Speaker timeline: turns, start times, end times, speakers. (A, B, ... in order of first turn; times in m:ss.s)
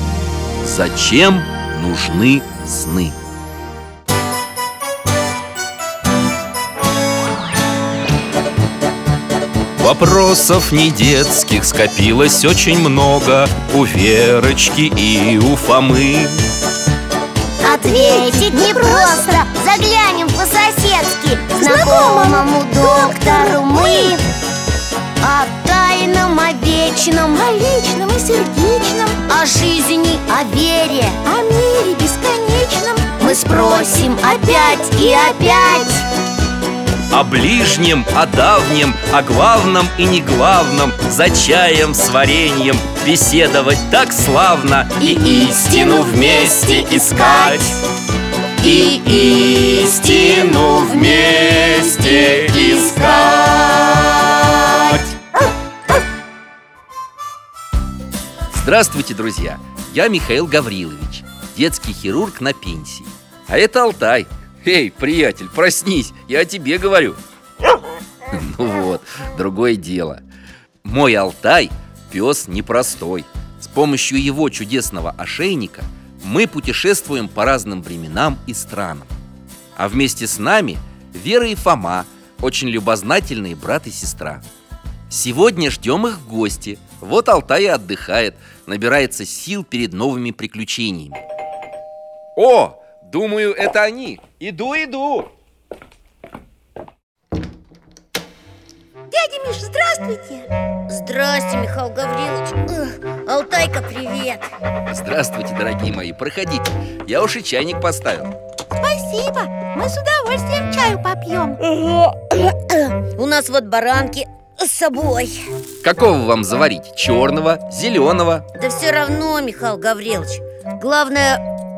0:00.6-0:03.1 A
0:09.8-0:16.4 A
0:17.6-0:19.4 B
0:17.6-0:24.2 C
0:21.6-0:24.2 B
0:25.2-0:27.4 C
0:27.3-0:29.2 B
0:29.3-0:31.2 C
0:31.2-0:36.0 B
0:33.2-0:36.0 C
0:37.1-0:47.8 A
0:45.0-0:47.7 C
0:48.6-0:53.9 A
0:48.6-0:54.1 C
0:58.5-1:07.2 A
1:08.3-1:10.2 A
1:10.8-1:19.1 A
1:19.8-1:24.4 A
1:25.1-1:31.2 A
1:32.4-1:35.3 A
1:39.1-1:40.5 B
1:40.9-1:44.5 C
1:44.9-1:48.3 A
1:48.8-1:51.6 B
1:51.6-1:55.4 C
1:55.8-1:58.4 A
1:58.5-2:01.4 C